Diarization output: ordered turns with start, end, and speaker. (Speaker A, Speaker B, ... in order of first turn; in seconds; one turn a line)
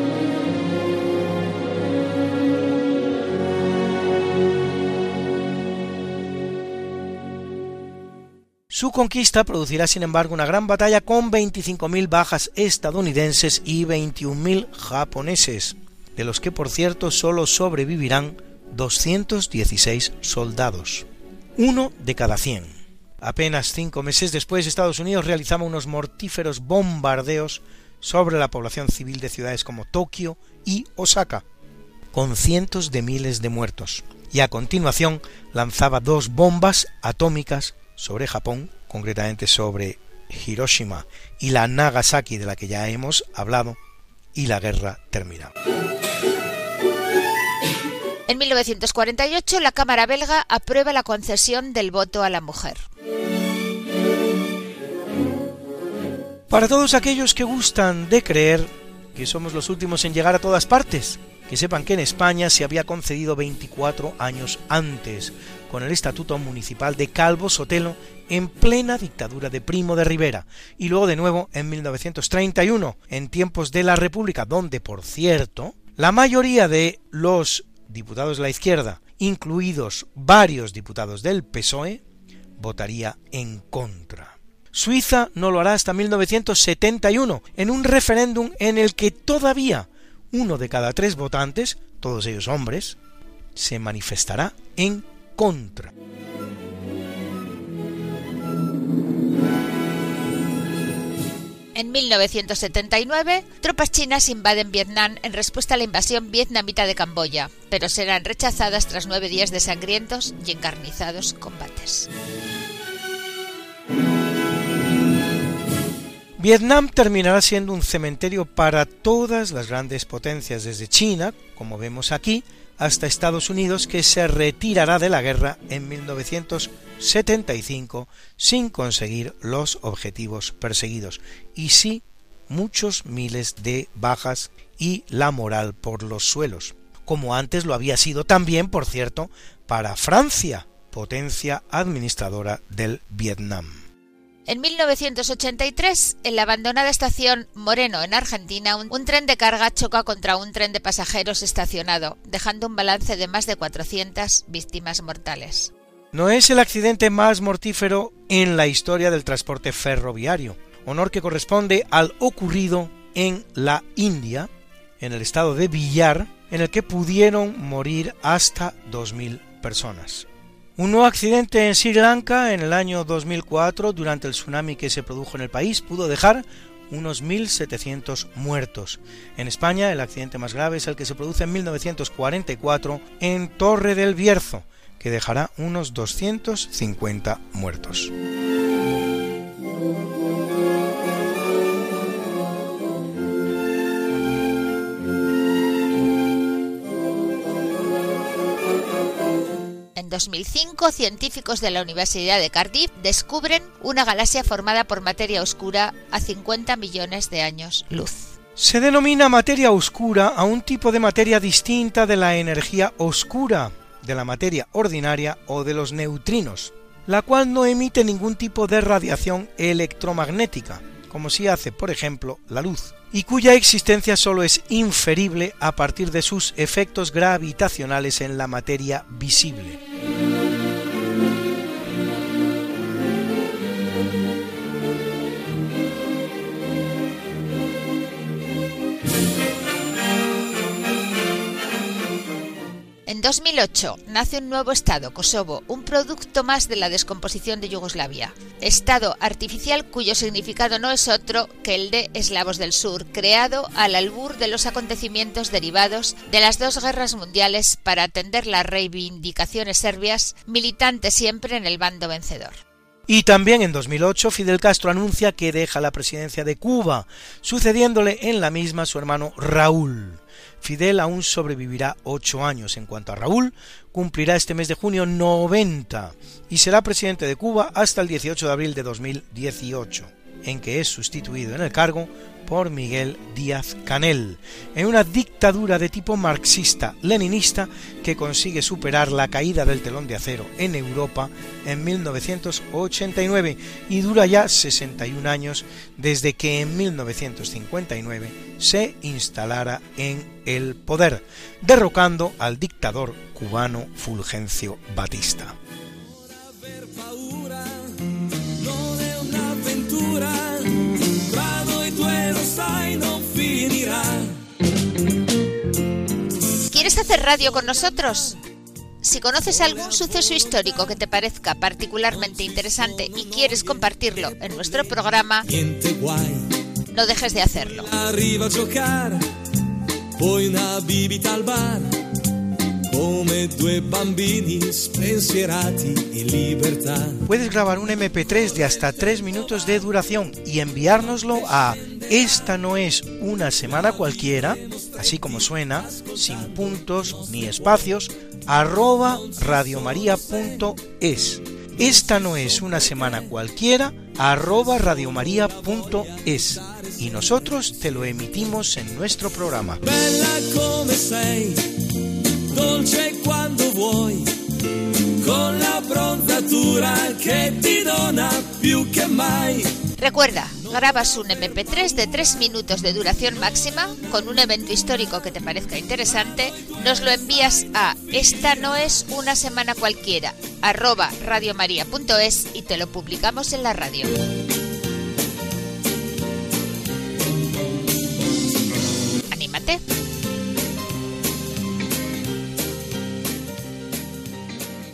Speaker A: 8.7-21.1
Speaker A: 21.6-22.7
Speaker A: 23.2-31.4
Speaker A: 32.1-43.8
Speaker A: 44.3-45.5
Speaker B: 48.3-52.8
Speaker A: 56.5-82.0
Speaker A: 82.6-93.0
Speaker A: 93.5-95.9
Speaker B: 101.7-112.1
Speaker A: 116.4-143.7
Speaker B: 144.5-155.7
Speaker A: 156.1-164.5
Speaker A: 165.0-188.1
Speaker B: 199.9-208.3
Speaker A: 208.6-229.8
Speaker B: 243.1-262.6
Speaker A: 263.1-305.6
Speaker C: 306.0-308.0
Speaker C: 308.6-314.4
Speaker B: 316.7-318.4
Speaker B: 319.0-325.5
Speaker C: 322.3-323.6
Speaker C: 325.5-326.5
Speaker B: 326.9-327.9
Speaker C: 327.9-329.3
Speaker C: 330.2-332.1
Speaker C: 332.9-337.2
Speaker A: 337.2-359.8
Speaker C: 341.1-342.1
Speaker C: 344.4-345.3
Speaker C: 345.8-347.8
Speaker C: 349.2-350.5
Speaker C: 352.0-353.1
Speaker C: 354.7-357.8
Speaker C: 359.8-361.9
Speaker C: 362.5-364.3
Speaker C: 365.2-369.9
Speaker B: 370.0-384.1
Speaker B: 389.3-389.8